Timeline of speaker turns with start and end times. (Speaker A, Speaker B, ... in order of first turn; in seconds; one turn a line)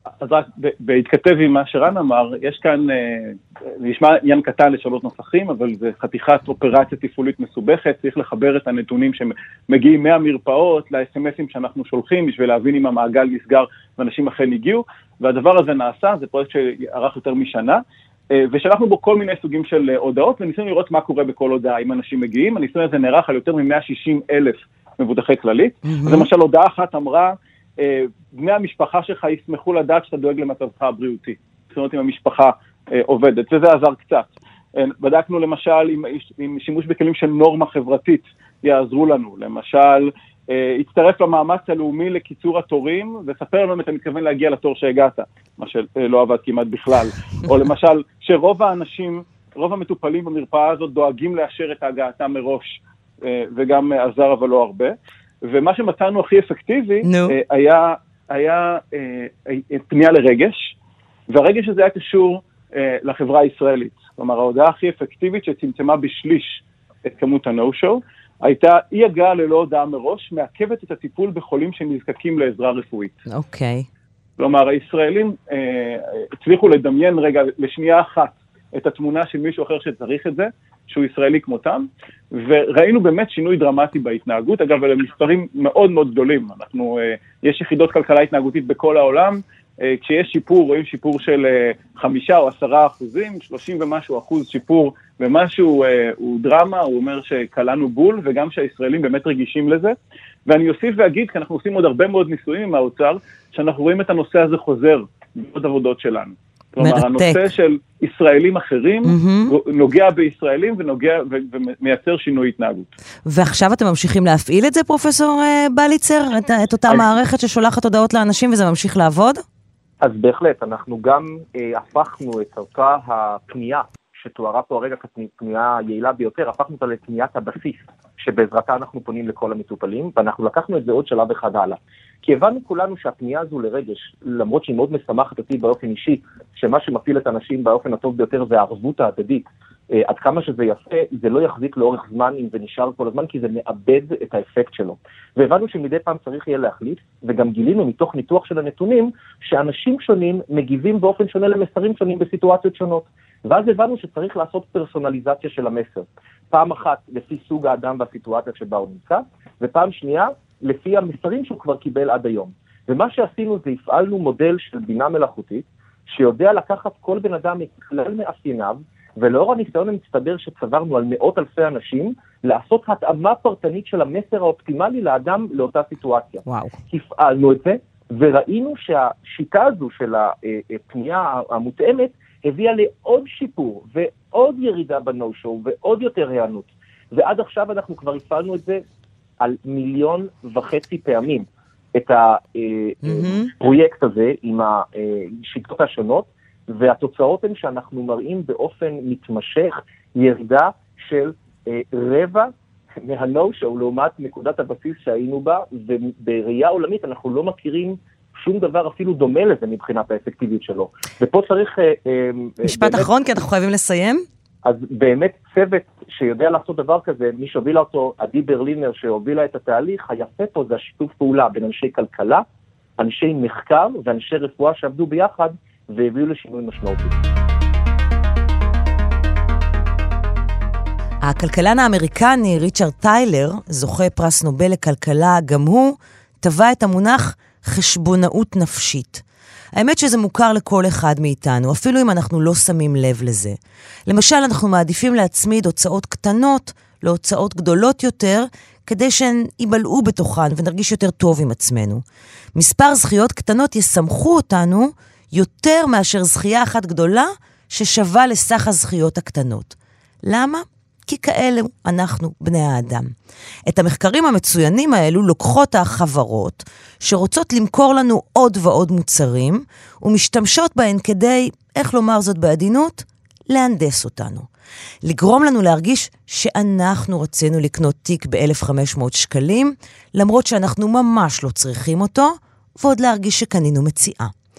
Speaker A: 0.2-17.8
Speaker A: 18.3-60.7
Speaker B: 25.9-26.3
Speaker B: 57.0-57.4
Speaker A: 61.3-73.2
Speaker B: 73.3-73.9
Speaker A: 74.4-100.0
Speaker A: 100.5-112.9
Speaker B: 106.8-107.4
Speaker B: 109.0-109.5
Speaker B: 113.3-119.4
Speaker C: 120.0-188.8
Speaker B: 176.5-176.8
Speaker C: 189.4-213.1
Speaker B: 193.0-193.5
Speaker B: 212.6-214.2
Speaker C: 214.6-222.4
Speaker C: 223.0-227.2
Speaker B: 231.2-239.2
Speaker B: 239.8-252.0
Speaker B: 252.6-263.1
Speaker B: 263.7-274.5
Speaker B: 275.0-284.3